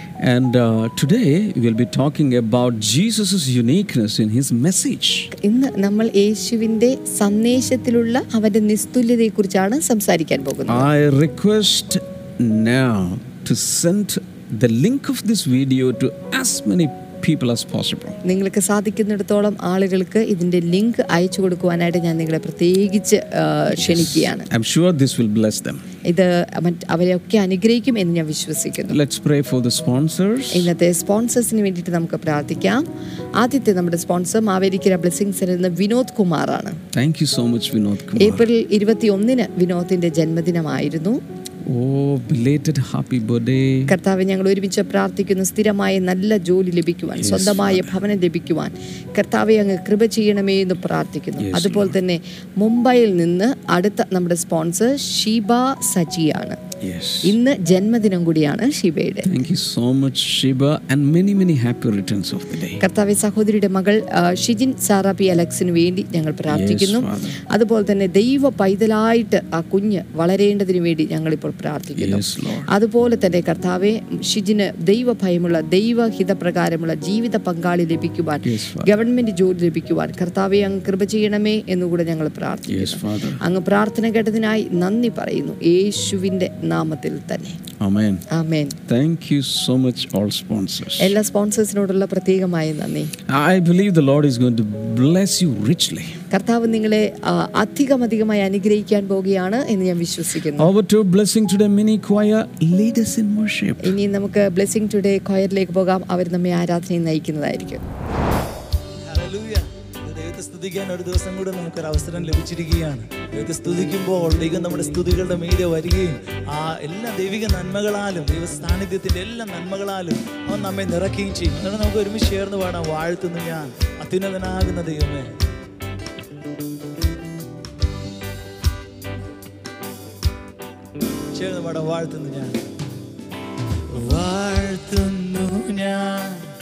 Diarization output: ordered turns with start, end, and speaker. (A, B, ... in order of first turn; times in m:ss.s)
0:00.2-0:05.3 A
0:05.4-0:10.9 B
0:10.7-0:18.2 A
0:18.2-0:24.5 B
0:23.7-0:25.8 A
0:26.0-0:29.0 B
0:28.9-0:30.7 A
0:30.5-0:32.8 B
0:33.4-0:36.8 B
0:36.9-0:38.5 A
0:38.2-0:41.2 B
0:41.7-0:44.0 A
0:43.9-0:56.6 B
0:47.2-0:48.0 A
0:51.4-0:52.0 A
0:56.8-0:57.4 A
0:57.2-0:59.3 B
0:59.3-1:02.8 A
1:02.8-1:27.6 B
1:06.5-1:07.4 A
1:12.0-1:12.7 A
1:18.4-1:18.9 A
1:22.7-1:23.4 A
1:27.8-1:28.2 A
1:28.3-1:28.8 B
1:28.9-1:31.1 A
1:31.0-1:33.1 B
1:33.3-1:36.2 A
1:36.3-1:40.7 B
1:40.6-1:44.0 A
1:43.8-1:47.8 B
1:49.0-2:05.3 C
2:11.3-2:12.6 C
2:13.9-2:16.4 C